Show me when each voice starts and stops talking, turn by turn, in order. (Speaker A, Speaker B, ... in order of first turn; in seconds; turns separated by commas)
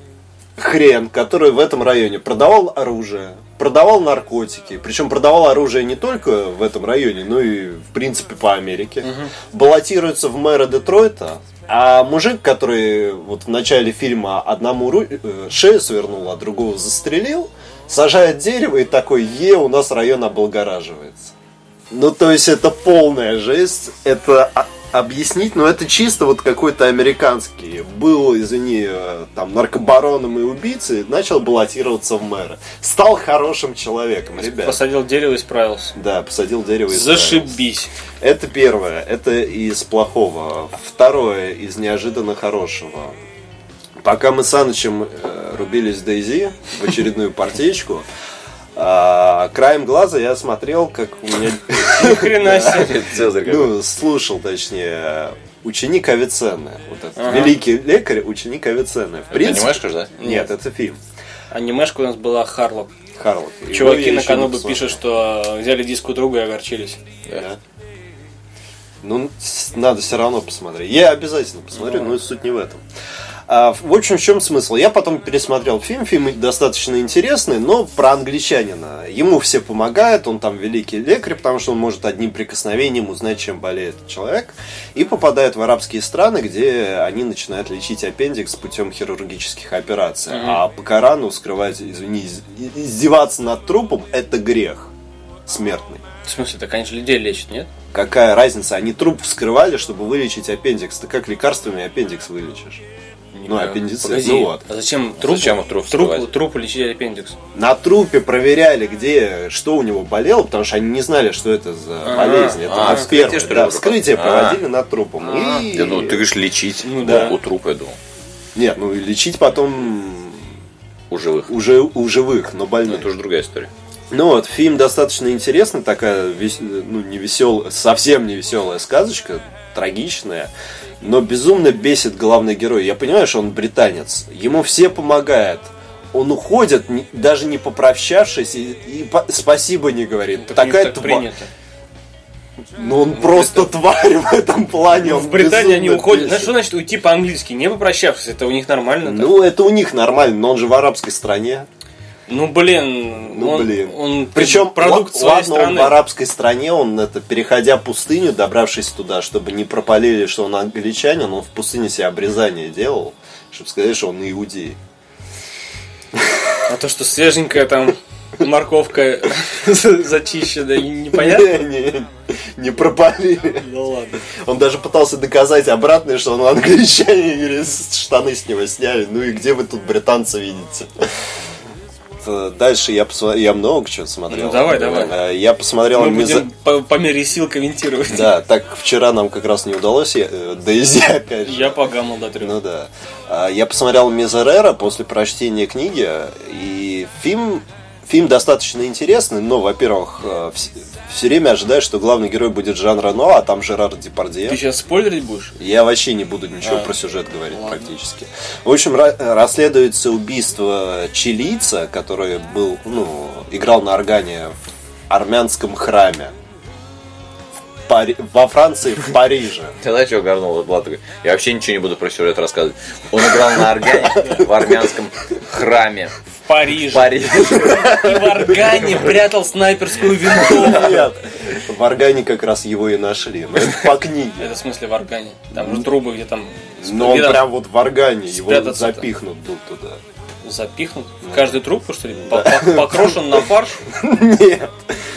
Speaker A: 0.6-21.3, Speaker B: 9.0-9.3, Speaker A: 21.9-34.8, Speaker B: 34.4-35.9, Speaker A: 36.0-37.6, Speaker B: 36.9-37.9, Speaker A: 38.2-43.2, Speaker A: 44.0-48.1, Speaker A: 48.8-61.0, Speaker B: 51.9-53.0, Speaker C: 52.2-53.8, Speaker B: 57.2-57.6, Speaker C: 59.3-60.1, Speaker B: 60.2-60.5, Speaker B: 61.5-62.9, Speaker A: 63.2-65.0, Speaker B: 63.7-67.0, Speaker A: 67.3-67.6, Speaker A: 69.0-72.8, Speaker B: 71.8-72.1, Speaker A: 73.5-94.9, Speaker B: 90.3-90.6, Speaker A: 95.5-96.0, Speaker B: 96.2-97.7, Speaker A: 97.9-102.8, Speaker B: 103.3-107.3, Speaker A: 103.5-104.6, Speaker C: 105.2-106.3, Speaker A: 107.5-116.3, Speaker B: 112.0-113.1, Speaker C: 112.6-114.6, Speaker B: 115.2-115.7, Speaker C: 115.7-118.0, Speaker B: 116.8-117.4, Speaker A: 117.0-117.4, Speaker A: 118.5-120.5, Speaker C: 121.1-121.5, Speaker A: 121.5-123.1, Speaker C: 122.9-123.7, Speaker A: 124.1-141.3, Speaker B: 140.4-141.5, Speaker A: 142.8-146.6, Speaker B: 145.0-149.5, Speaker A: 149.0-151.7, Speaker B: 152.3-156.0, Speaker A: 153.3-164.8, Speaker A: 166.1-166.4, Speaker B: 166.7-171.7, Speaker A: 171.1-173.7, Speaker B: 173.6-174.2, Speaker A: 174.2-181.1, Speaker A: 182.2-186.5, Speaker B: 184.3-185.2, Speaker B: 185.9-188.3, Speaker A: 188.1-191.8, Speaker B: 191.4-192.6, Speaker A: 192.4-204.6, Speaker B: 204.5-205.6, Speaker A: 205.6-214.6, Speaker B: 207.5-207.8, Speaker A: 215.1-216.3, Speaker A: 217.9-219.8, Speaker C: 219.8-226.1, Speaker A: 223.9-224.3, Speaker B: 224.2-224.5, Speaker B: 226.4-231.1, Speaker C: 226.7-228.2, Speaker A: 230.3-234.6, Speaker B: 234.4-237.5, Speaker A: 235.6-235.8, Speaker A: 236.8-240.0, Speaker B: 238.3-239.1, Speaker B: 240.4-243.8, Speaker A: 241.2-241.6, Speaker A: 242.2-244.9